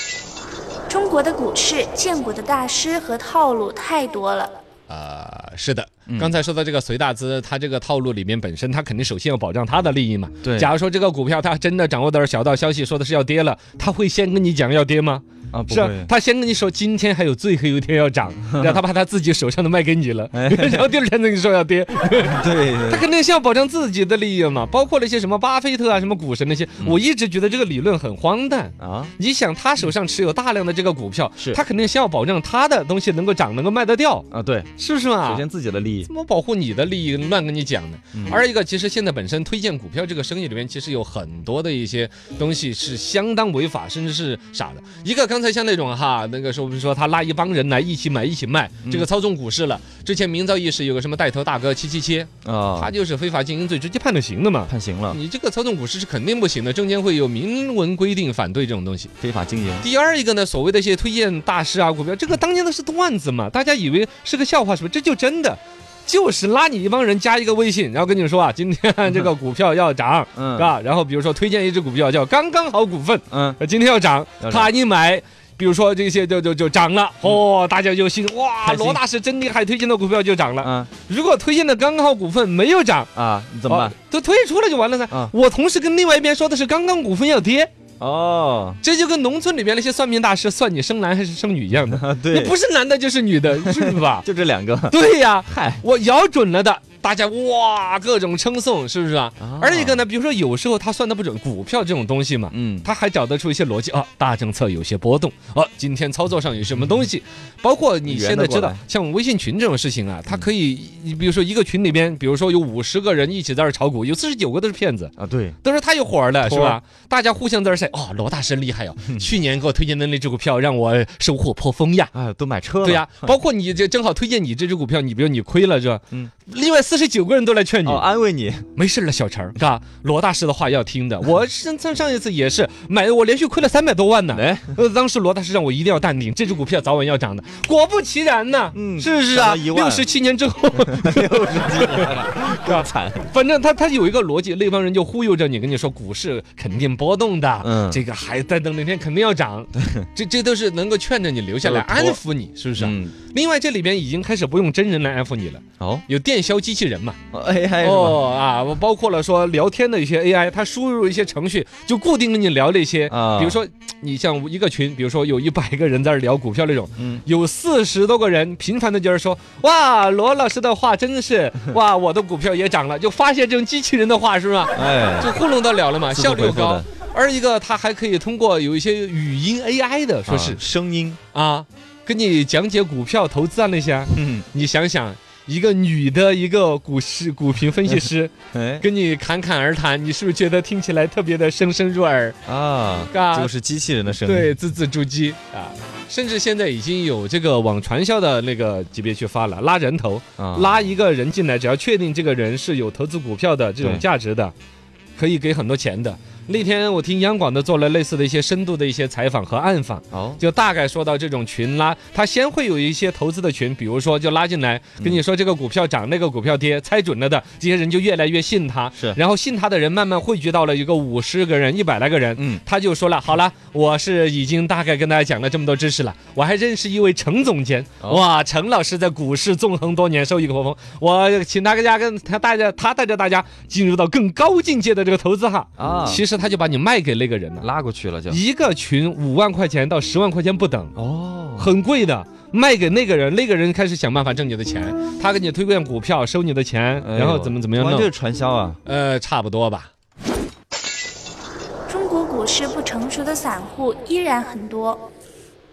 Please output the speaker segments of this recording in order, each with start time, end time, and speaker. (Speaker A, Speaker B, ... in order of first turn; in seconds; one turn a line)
Speaker A: 0.9-4.6
Speaker B: 4.9-35.4
Speaker C: 6.1-6.3
Speaker C: 10.4-10.7
Speaker C: 15.5-16.1
Speaker C: 18.5-18.8
Speaker C: 20.3-20.9
Speaker C: 22.2-23.1
Speaker C: 28.8-29.1
Speaker C: 34.3-36.1
Speaker B: 36.1-59.1
Speaker C: 38.1-38.4
Speaker C: 52.4-52.9
Speaker C: 54.7-55.2
Speaker C: 59.2-59.9
Speaker B: 59.8-83.1
Speaker C: 70.4-70.7
Speaker C: 73.3-73.6
Speaker C: 74.4-74.7
Speaker C: 78.6-79.0
Speaker C: 80.6-80.9
Speaker C: 83.2-84.0
Speaker B: 83.7-87.7
Speaker C: 88.0-88.8
Speaker B: 88.8-94.3
Speaker C: 91.9-92.6
Speaker C: 93.6-95.8
Speaker B: 94.9-122.1
Speaker C: 99.4-100.1
Speaker C: 102.5-102.9
Speaker C: 108.0-108.8
Speaker C: 115.2-115.6
Speaker C: 116.4-116.8
Speaker C: 122.1-123.4
Speaker B: 122.8-128.1
Speaker C: 127.8-128.7
Speaker B: 128.8-157.2
Speaker C: 134.3-134.8
Speaker C: 138.7-140.1
Speaker C: 140.7-143.3
Speaker C: 147.6-148.0
Speaker C: 149.8-150.1
Speaker C: 151.6-152.2
Speaker C: 152.8-153.2
Speaker C: 155.8-156.1
Speaker C: 157.3-158.2
Speaker B: 157.8-180.6
Speaker C: 163.1-163.6
Speaker C: 167.0-167.2
Speaker C: 174.7-175.4
Speaker C: 176.1-176.9
Speaker C: 180.3-181.2
Speaker B: 181.3-192.4
Speaker C: 184.1-184.5
Speaker C: 188.5-188.9
Speaker C: 192.5-194.5
Speaker B: 193.1-193.5
Speaker B: 194.1-204.5
Speaker C: 200.4-200.8
Speaker B: 205.2-237.7
Speaker C: 210.1-210.4
Speaker C: 222.4-222.6
Speaker C: 235.8-236.2
Speaker C: 237.6-238.4
Speaker B: 238.3-240.9
Speaker C: 241.0-241.8
Speaker B: 241.6-248.1
Speaker C: 247.0-248.8
Speaker B: 248.8-249.9
Speaker A: 251.9-255.1